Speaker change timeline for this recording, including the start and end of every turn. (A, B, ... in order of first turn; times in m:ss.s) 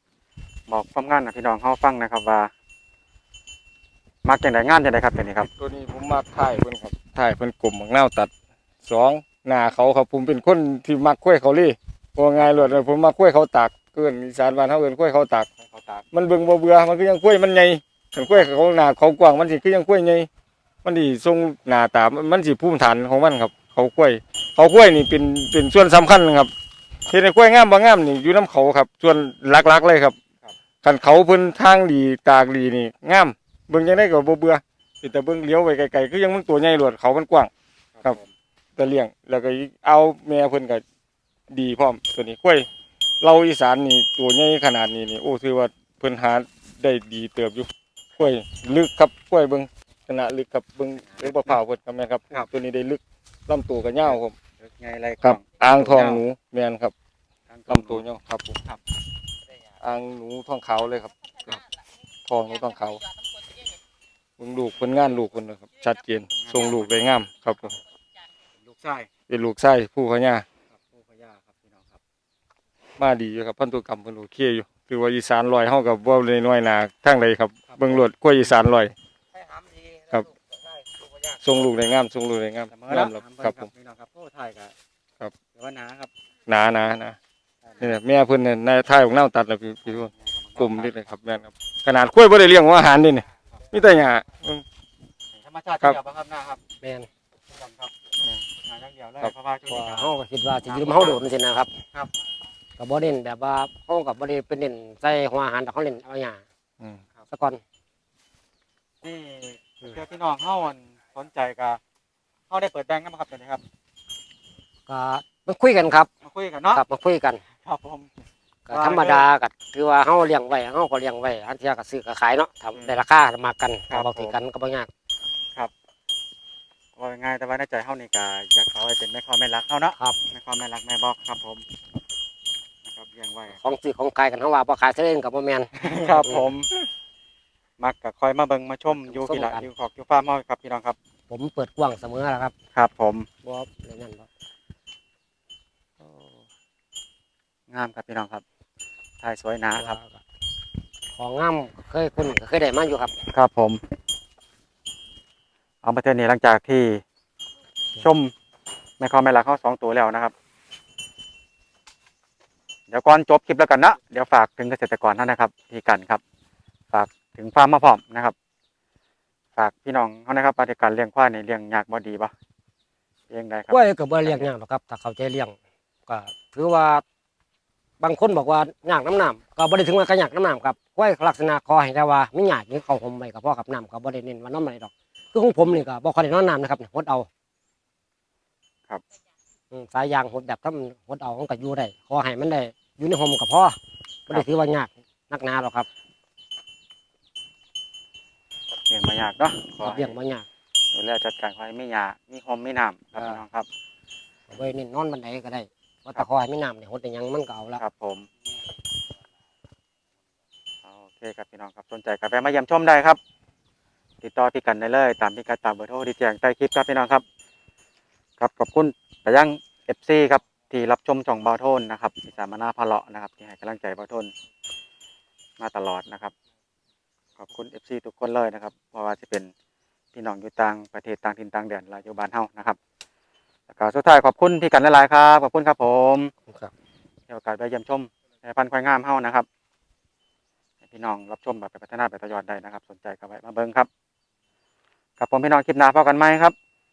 0:00.7-0:02.5 A
0:04.2-0:05.5 A
0:05.5-0:08.3 B
0:08.9-0:15.5 B
0:12.4-0:12.8 A
0:15.6-0:16.1 A
0:16.1-0:20.3 B
0:20.8-0:26.5 B
0:27.1-0:30.2 B
0:30.8-0:37.5 B
0:38.0-0:38.3 A
0:38.8-0:40.8 B
0:41.5-0:42.7 B
0:43.2-0:54.3 B
0:54.0-0:56.2 A
0:55.2-0:56.9 B
0:57.5-0:58.0 A
0:57.7-0:58.6 B
0:59.8-1:01.6 B
1:02.3-1:03.0 B
1:04.4-1:07.8 B
1:06.3-1:06.9 A
1:08.7-1:09.1 A
1:09.3-1:10.4 B
1:10.8-1:11.9 A
1:13.0-1:18.9 B
1:17.7-1:18.0 A
1:21.3-1:23.7 B
1:22.7-1:24.7 A
1:25.6-1:26.1 A
1:26.5-1:27.2 B
1:27.7-1:27.9 A
1:27.8-1:34.6 B
1:30.1-1:31.0 A
1:35.3-1:36.6 A
1:36.8-1:37.1 C
1:37.5-1:40.1 A
1:39.7-1:41.7 C
1:40.7-1:41.2 A
1:42.8-1:46.4 C
1:47.3-1:47.6 C
1:49.0-1:51.8 A
1:52.5-1:53.6 A
1:54.9-1:56.1 C
1:56.2-1:56.8 A
1:56.7-1:57.4 C
1:57.6-1:58.1 A
1:58.7-2:04.9 C
1:58.7-1:59.2 A
2:03.9-2:04.4 A
2:07.0-2:11.6 A
2:12.9-2:13.6 A
2:13.5-2:16.5 C
2:15.8-2:16.7 A
2:17.8-2:21.0 A
2:18.9-2:19.7 C
2:21.3-2:22.5 C
2:22.8-2:23.3 A
2:23.4-2:24.3 C
2:27.7-2:28.4 A
2:29.2-2:30.0 A
2:29.7-2:30.2 C
2:31.2-2:33.2 C
2:33.3-2:33.8 A
2:35.8-2:37.0 A
2:38.0-2:38.3 A
2:39.0-2:40.3 A
2:42.9-2:46.2 A
2:46.9-2:48.3 A
2:49.6-2:52.3 A
2:53.3-2:54.4 A
2:53.7-2:55.6 C
2:56.1-2:57.0 C
2:58.0-3:07.3 C
3:09.7-3:13.8 C
3:14.3-3:15.9 C
3:18.9-3:20.2 A
3:19.8-3:20.5 C
3:20.9-3:23.7 A
3:24.5-3:27.8 C
3:27.8-3:28.3 A
3:30.9-3:33.2 A
3:34.2-3:37.2 A
3:38.4-3:44.3 A
3:45.6-3:46.3 A
3:47.4-3:49.5 A
3:50.2-3:52.8 A
3:53.7-3:56.3 A
3:57.3-3:59.5 A
4:00.9-4:03.9 A
4:05.2-4:06.5 A